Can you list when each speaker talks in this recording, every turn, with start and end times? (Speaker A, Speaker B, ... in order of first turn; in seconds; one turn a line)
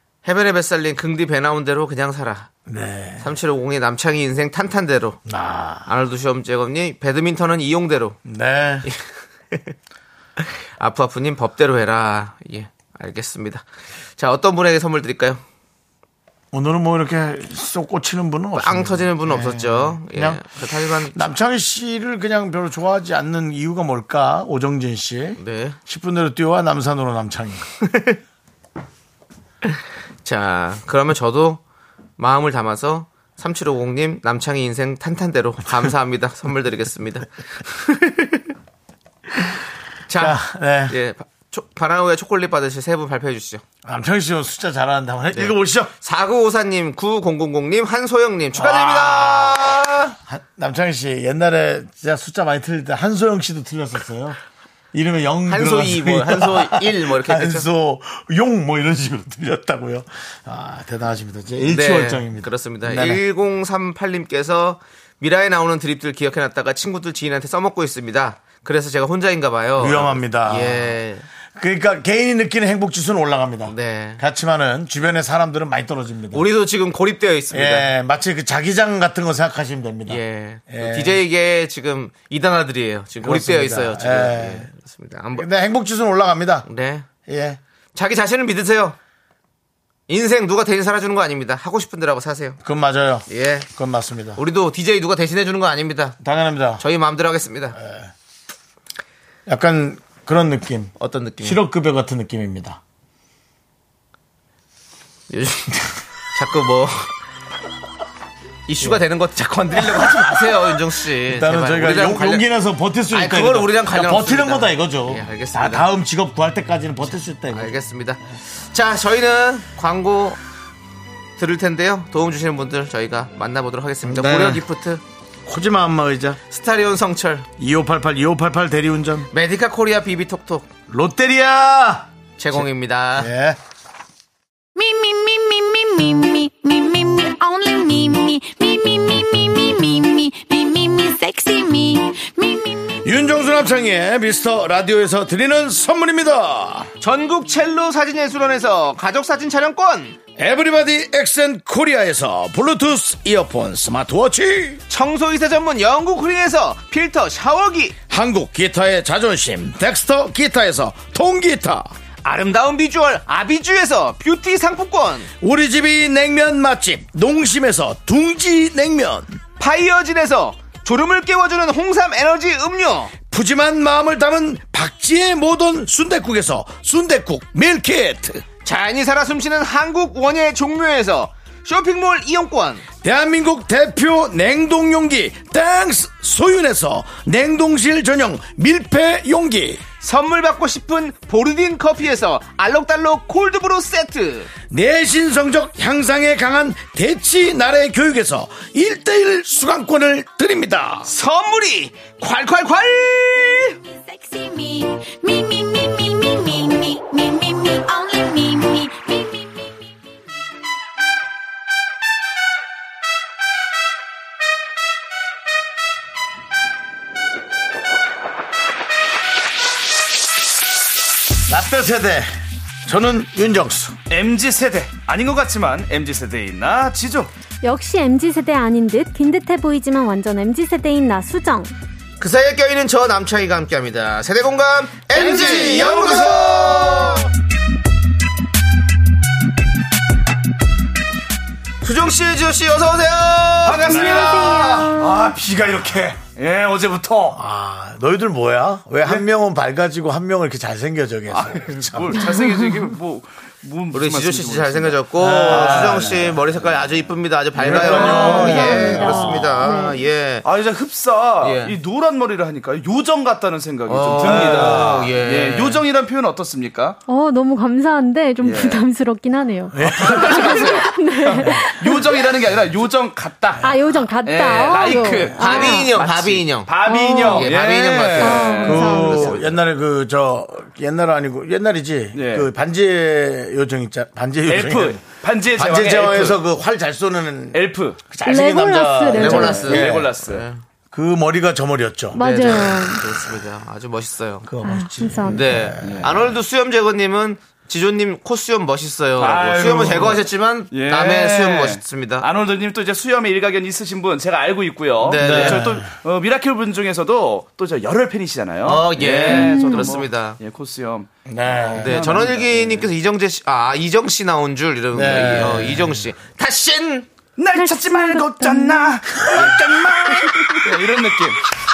Speaker A: 0.2-2.5
Speaker B: 2.7-3.4
Speaker A: 3.2-5.2
Speaker B: 5.2-5.9
Speaker A: 5.8-8.2
Speaker B: 8.2-8.9
Speaker A: 8.8-9.7
Speaker A: 10.4-13.6
Speaker A: 14.2-15.4
Speaker B: 16.5-27.7
Speaker A: 18.5-21.3
Speaker A: 25.4-25.8
Speaker A: 27.9-28.2
Speaker A: 30.2-31.6
Speaker A: 32.2-38.4
Speaker A: 40.1-43.6
Speaker B: 40.1-40.9
Speaker B: 43.8-45.9
Speaker A: 45.3-50.1
Speaker B: 48.5-54.4
Speaker B: 54.9-63.2
Speaker A: 55.5-57.7
Speaker A: 61.6-71.2
Speaker B: 69.8-70.9
Speaker B: 71.5-76.5
Speaker A: 73.7-74.2
Speaker A: 76.3-77.9
Speaker B: 77.5-81.2
Speaker A: 80.1-85.5
Speaker B: 83.2-84.7
Speaker B: 85.3-86.7
Speaker A: 86.7-87.1
Speaker B: 87.2-87.6
Speaker A: 87.9-89.0
Speaker A: 90.1-92.6
Speaker B: 92.6-94.4
Speaker A: 93.3-93.7
Speaker A: 94.3-96.2
Speaker B: 96.2-96.8
Speaker A: 96.8-97.8
Speaker B: 97.8-98.1
Speaker B: 99.5-102.8
Speaker A: 101.0-101.6
Speaker A: 105.3-105.8
Speaker A: 106.3-107.1
Speaker A: 108.7-112.4
Speaker B: 109.7-117.8
Speaker A: 113.1-115.9
Speaker A: 117.5-120.4
Speaker A: 121.4-125.0
Speaker B: 124.0-124.6
Speaker B: 125.5-126.4
Speaker A: 126.5-127.5
Speaker B: 127.6-129.3
Speaker A: 129.3-130.7
Speaker B: 130.9-133.6
Speaker A: 132.4-133.3
Speaker C: 134.8-142.9
Speaker B: 143.0-146.9
Speaker A: 147.0-150.2
Speaker B: 150.4-154.8
Speaker A: 154.9-157.9
Speaker B: 158.1-161.9
Speaker A: 162.2-165.3
Speaker B: 165.4-169.4
Speaker A: 169.6-173.1
Speaker B: 173.3-178.4
Speaker A: 178.6-182.8
Speaker B: 183.0-189.8
Speaker A: 190.0-194.5
Speaker B: 194.7-201.1
Speaker A: 201.1-203.8
Speaker C: 203.8-209.7
Speaker B: 221.5-222.3
Speaker B: 222.8-223.9
Speaker D: 224.1-227.3
Speaker E: 227.6-231.7
Speaker A: 232.2-237.3
Speaker B: 235.1-237.3
Speaker D: 235.2-236.7
Speaker A: 241.8-244.6
Speaker D: 243.7-247.4
Speaker B: 243.7-245.0
Speaker E: 244.2-245.1
Speaker B: 245.6-246.1
Speaker B: 247.3-252.2
Speaker D: 251.3-256.3
Speaker E: 252.2-252.9
Speaker A: 253.9-260.4
Speaker B: 255.2-256.4
Speaker B: 257.6-259.6
Speaker D: 257.6-258.9
Speaker E: 257.9-260.0
Speaker D: 260.4-267.0
Speaker A: 261.4-261.7
Speaker A: 263.9-265.8
Speaker B: 264.2-265.1
Speaker E: 267.1-272.1
Speaker D: 268.4-268.8
Speaker B: 269.7-270.5
Speaker A: 269.9-270.9
Speaker D: 270.0-279.5
Speaker B: 271.4-271.6
Speaker E: 273.6-275.9
Speaker A: 275.4-279.3
Speaker E: 276.9-277.4
Speaker E: 278.2-279.3
Speaker B: 278.6-290.1
Speaker D: 282.1-282.5
Speaker D: 284.5-286.4
Speaker D: 287.5-288.1
Speaker E: 288.2-289.8
Speaker A: 289.1-290.6
Speaker D: 289.3-290.5
Speaker B: 290.9-292.2
Speaker A: 292.1-294.5
Speaker E: 292.1-293.0
Speaker B: 294.4-296.3
Speaker E: 294.6-295.4
Speaker A: 295.2-302.3
Speaker D: 295.8-296.1
Speaker D: 299.2-312.9
Speaker A: 305.0-305.7
Speaker B: 305.2-305.9
Speaker A: 308.6-310.4
Speaker E: 309.5-309.8
Speaker B: 311.2-312.2
Speaker A: 311.8-317.1
Speaker B: 314.9-316.0
Speaker D: 317.4-321.4
Speaker E: 317.5-319.0